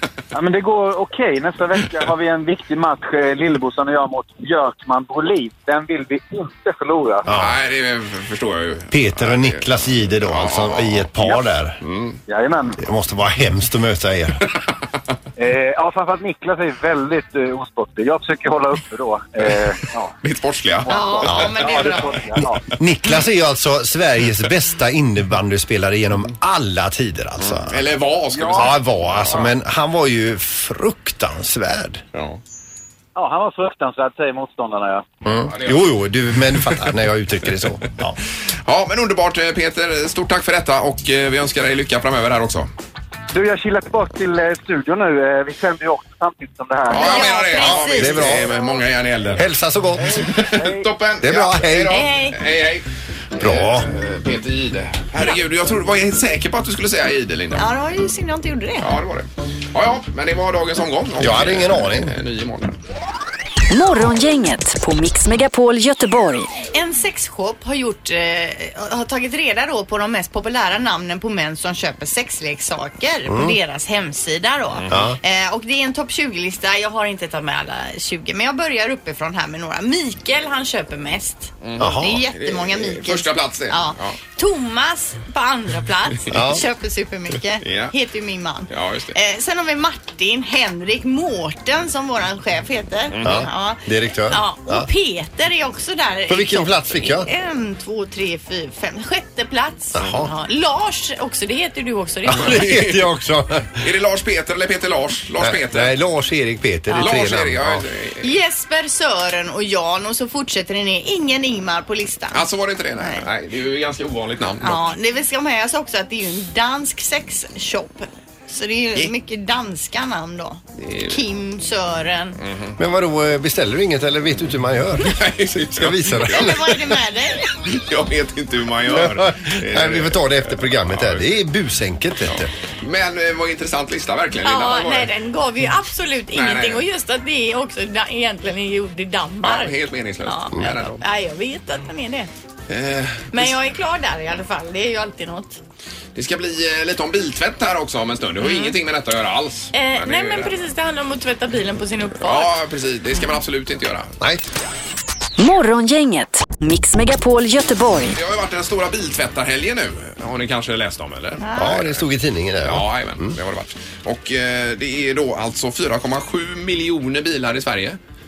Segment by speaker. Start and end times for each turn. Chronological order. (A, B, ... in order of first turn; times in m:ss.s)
0:00.3-0:07.3 A
0:07.3-0:07.6 B
0:07.3-0:11.1 C
0:08.9-0:11.8 B
0:11.2-0:11.4 A
0:11.8-0:12.2 C
0:12.3-0:12.8 A
0:12.8-0:14.5 B
0:15.4-0:20.1 A
0:20.2-0:21.5 C
0:20.8-0:22.6 A
0:20.9-0:22.2 D
0:22.8-0:27.8 B
0:27.4-0:29.5 C
0:28.3-0:28.7 A
0:28.5-0:32.0 B
0:32.1-0:32.4 C
0:33.2-0:35.1 A
0:35.2-0:35.9 C
0:35.5-0:38.1 B
0:38.6-0:42.7 C
0:43.3-0:47.3 A
0:46.9-0:48.5 D
0:46.9-0:49.4 C
0:47.6-0:48.5 B
0:49.4-0:50.4 B
0:50.0-0:50.8 A
0:50.2-0:57.6 C
0:51.2-0:52.0 B
0:51.9-0:52.4 D
0:53.4-0:53.9 B
0:57.6-0:58.9 D
0:58.8-1:02.8 C
1:01.2-1:02.1 B
1:03.7-1:06.5 E
1:06.7-1:42.8 D
1:13.3-1:13.6 B
1:14.9-1:15.2 B
1:21.6-1:24.2 C
1:21.8-1:22.2 B
1:26.3-1:26.6 B
1:27.6-1:27.9 C
1:28.7-1:29.2 C
1:33.1-1:33.4 C
1:33.2-1:34.9 B
1:36.3-1:37.3 B
1:40.0-1:40.3 B
1:42.3-1:43.8 B
1:42.4-1:43.0 C
1:43.8-1:45.9 C
1:45.4-1:47.9 B
1:46.9-1:47.1 D
1:47.0-1:48.3 C
1:48.2-1:52.4 D
1:52.3-1:54.9 C
1:54.6-2:02.4 D
2:00.8-2:01.2 C
2:02.4-2:02.8 C
2:02.8-2:06.8 B
2:05.0-2:06.8 C
2:06.3-2:07.6 D
2:07.7-2:11.2 C
2:08.9-2:12.5 B
2:12.3-2:15.1 C
2:14.4-2:22.3 D
2:16.3-2:16.8 C
2:19.4-2:21.0 C
2:22.7-2:23.6 C
2:23.3-2:25.6 D
2:26.2-2:30.5 C
2:28.4-2:28.8 D
2:29.7-2:32.5 D
2:32.2-2:34.1 C
2:35.4-2:38.2 E
2:38.1-2:42.0 C
2:41.4-2:41.8 D
2:41.6-2:43.3 B
2:42.6-2:48.0 C